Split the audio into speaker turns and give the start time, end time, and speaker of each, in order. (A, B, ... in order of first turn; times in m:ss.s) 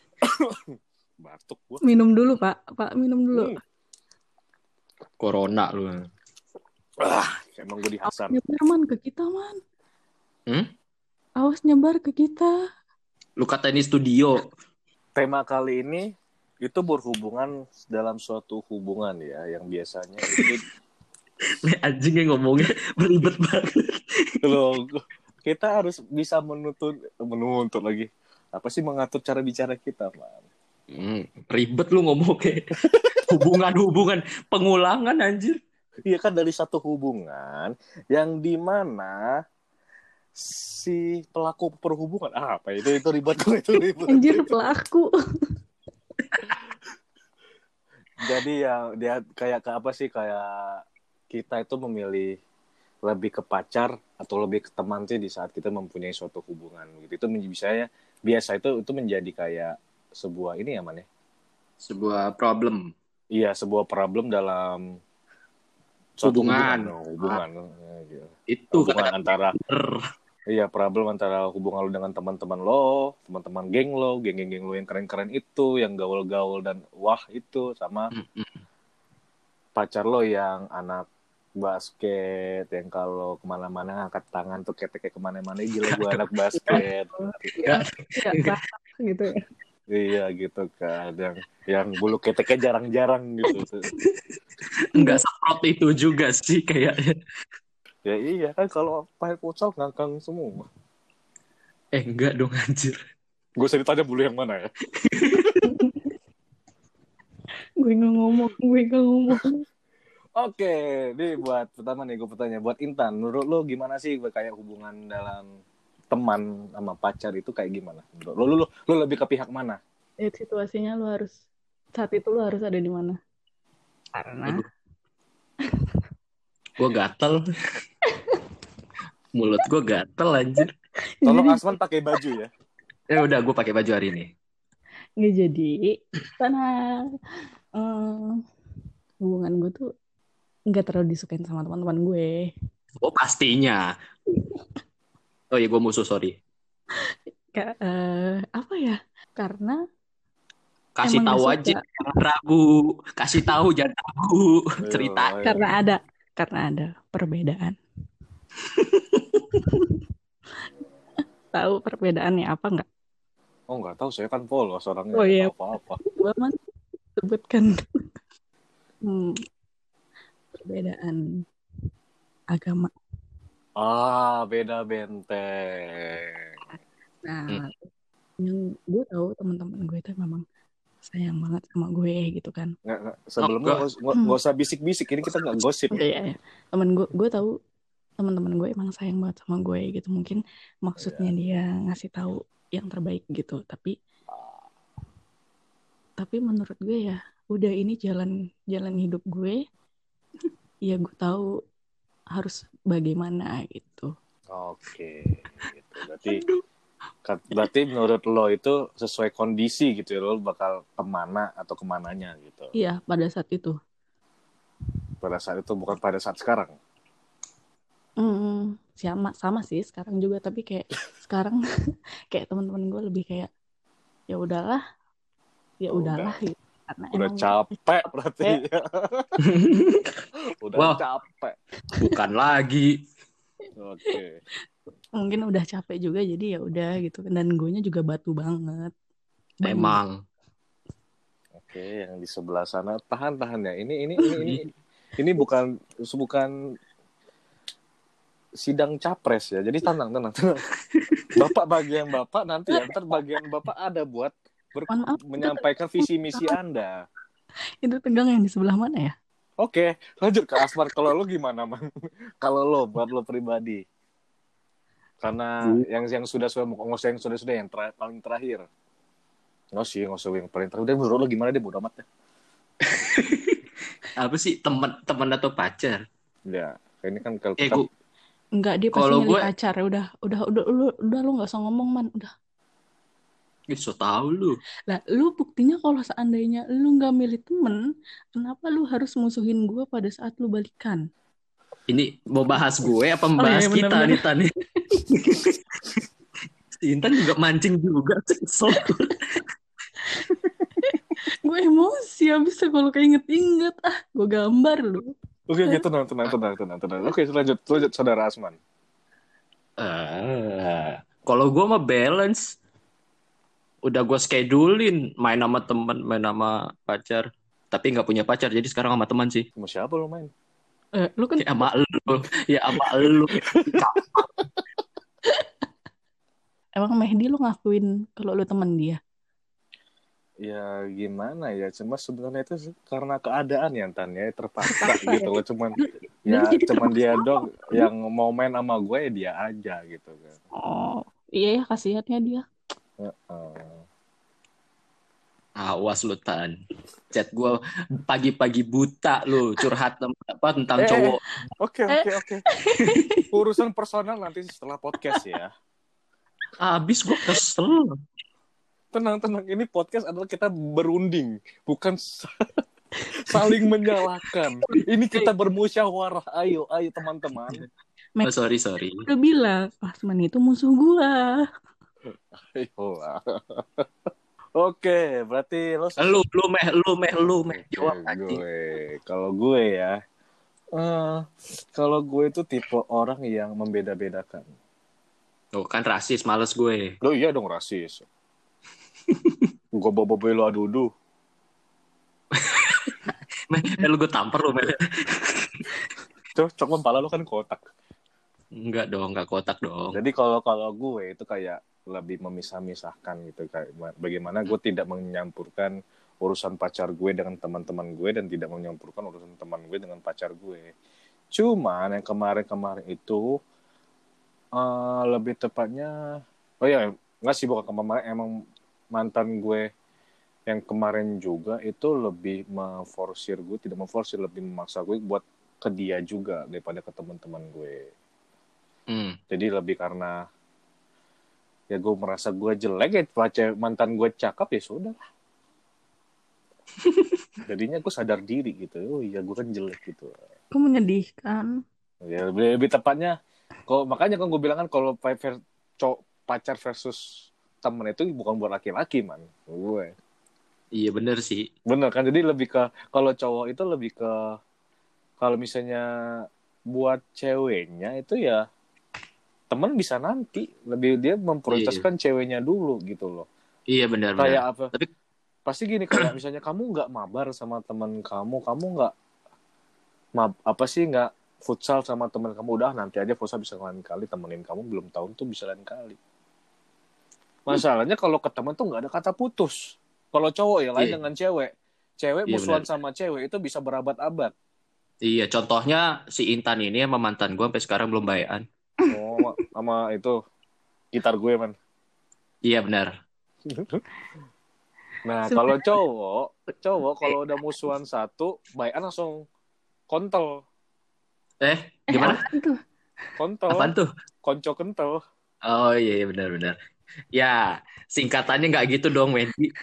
0:00.2-0:01.8 A
0:01.8-0:03.5 B
0:05.2-0:06.1 C
0:07.0-0:08.4 A
0:08.1-0:09.6 B
0:11.4-0:12.5 B
0:13.4-0:14.5 C
0:15.2-0:16.0 A
0:16.6-0:20.6 A
0:20.3-0:20.5 C
0:21.6-0:24.5 C
0:24.4-0:30.4 A
0:30.9-0:35.6 C
0:32.9-0:33.2 A
0:36.0-0:39.2 A
0:40.4-0:44.5 A
0:44.1-0:45.1 B
0:48.2-0:52.3 A
0:53.0-1:01.0 A
1:01.8-1:02.9 C
1:03.3-1:04.9 A
1:06.2-1:09.6 A
1:06.2-1:07.4 C
1:08.5-1:10.0 C
1:10.5-1:18.1 A
1:18.1-1:18.6 C
1:19.8-1:21.1 A
1:21.6-1:27.6 A
1:25.9-1:26.8 C
1:26.7-1:29.3 B
1:27.6-1:28.5 C
1:29.9-1:33.9 A
1:34.8-1:37.1 C
1:34.9-1:35.2 B
1:38.0-1:40.6 A
1:41.9-1:43.0 C
1:43.6-1:44.7 A
1:45.0-1:45.6 C
1:45.6-1:46.1 B
1:47.8-1:49.6 B
1:50.4-1:55.5 A
1:56.1-1:59.8 A
2:00.2-2:01.3 B
2:02.0-2:03.2 B
2:04.1-2:04.6 B
2:06.8-2:07.4 C
2:09.3-2:10.7 C
2:11.2-2:11.7 B
2:11.2-2:12.5 A
2:13.1-2:14.3 C
2:15.2-2:16.8 B
2:17.8-2:18.4 B
2:19.2-2:19.8 B
2:20.7-2:22.5 B
2:23.0-2:23.9 C
2:24.3-2:24.6 B
2:25.5-2:26.4 C
2:27.5-2:29.8 B
2:31.0-2:35.3 C
2:31.0-2:31.8 B
2:34.8-2:35.7 A
2:35.4-2:37.7 B
2:38.7-2:39.4 C
2:39.7-2:40.0 B
2:41.5-2:42.8 B
2:43.7-2:46.0 A
2:45.1-2:45.5 B
2:46.1-2:46.6 B
2:47.2-2:48.0 B
2:49.0-2:49.4 B
2:50.5-2:51.2 B
2:52.5-2:52.9 B
2:53.8-2:56.5 A
2:57.2-2:57.9 B
2:58.4-3:00.4 B
3:01.0-3:02.7 B
3:02.8-3:06.0 A
3:03.4-3:03.8 C
3:05.9-3:07.5 B
3:08.2-3:13.9 B
3:11.0-3:11.3 A
3:14.3-3:14.6 A
3:16.2-3:19.6 B
3:20.9-3:21.4 B
3:22.3-3:24.1 B
3:24.5-3:26.4 A
3:27.2-3:32.7 A
3:32.8-3:33.8 B
3:35.2-3:36.7 A
3:38.2-3:41.6 B
3:42.3-3:43.5 B
3:44.3-3:44.8 B
3:45.8-3:47.5 B
3:45.9-3:46.4 A
3:47.1-3:49.3 A
3:49.4-3:50.1 C
3:50.6-3:51.6 A
3:51.9-3:52.9 C
3:53.8-3:54.4 A
3:55.2-3:58.9 B
3:59.6-4:00.0 B
3:59.6-4:00.2 C
4:01.6-4:06.5 A
4:04.3-4:04.6 C
4:08.6-4:10.6 A
4:11.0-4:11.3 C
4:11.3-4:16.9 A
4:14.9-4:16.6 B
4:17.8-4:19.1 B
4:19.6-4:21.8 A
4:22.4-4:23.8 A
4:25.2-4:28.6 A
4:29.7-4:32.0 A
4:32.9-4:33.6 C
4:34.2-4:36.0 C
4:36.5-4:37.8 A
4:37.6-4:37.9 C
4:38.6-4:42.3 B
4:38.9-4:39.5 C
4:43.7-4:44.6 C
4:44.9-4:47.8 B
4:48.4-4:51.0 B
4:51.9-4:54.5 C
4:53.4-4:54.2 B
4:55.1-4:55.6 C
4:56.8-4:59.2 C
5:00.2-5:05.1 B
5:05.5-5:08.6 A
5:09.8-5:12.5 C
5:13.8-5:19.4 C
5:19.6-5:20.3 A
5:21.0-5:21.7 B
5:21.4-5:24.3 C
5:26.8-5:29.0 B
5:30.4-5:40.4 A
5:34.7-5:37.9 B
5:40.6-5:42.4 B
5:43.0-5:43.8 A
5:45.6-5:46.5 C
5:47.1-5:51.2 C
5:50.8-5:52.4 A
5:51.9-5:53.3 B
5:53.3-5:55.5 A
5:56.6-5:58.0 C
5:58.9-6:02.6 A
6:03.1-6:04.0 B
6:03.2-6:07.6 A
6:08.2-6:09.0 C
6:09.0-6:11.3 B
6:12.4-6:16.2 A
6:16.0-6:18.4 C
6:17.5-6:20.0 A
6:20.7-6:24.5 A
6:25.5-6:26.9 C
6:27.0-6:28.0 A
6:29.1-6:29.4 C
6:29.7-6:30.9 A
6:32.3-6:35.6 C
6:36.4-6:37.6 A
6:38.5-6:40.0 C
6:39.9-6:50.7 A
6:51.3-6:53.4 A
6:54.6-6:55.9 A
6:56.6-6:58.3 A
6:58.9-6:59.7 A
7:00.5-7:07.9 A
7:08.9-7:09.2 C
7:09.3-7:10.2 A
7:11.7-7:15.0 A
7:17.4-7:20.2 A
7:20.5-7:21.5 B
7:22.0-7:23.1 A
7:23.7-7:27.0 A
7:27.6-7:29.9 A
7:30.7-7:31.5 C
7:31.7-7:34.3 A
7:35.2-7:35.8 A
7:36.7-7:38.4 A
7:39.5-7:43.3 A
7:41.5-7:41.8 C
7:43.7-7:44.9 C
7:44.2-7:44.7 A
7:45.5-7:48.9 A
7:50.2-7:56.0 A
7:57.5-8:04.3 A
8:02.3-8:02.6 C
8:05.0-8:08.4 C
8:08.9-8:10.2 A
8:10.9-8:11.5 A
8:12.4-8:12.9 C
8:13.5-8:13.8 A
8:15.0-8:19.2 A
8:15.3-8:15.7 B
8:19.9-8:20.3 A
8:21.4-8:22.2 C
8:21.9-8:22.6 B
8:23.2-8:23.7 A
8:23.5-8:23.9 C
8:24.2-8:25.0 A
8:25.4-8:26.6 C
8:27.1-8:29.5 C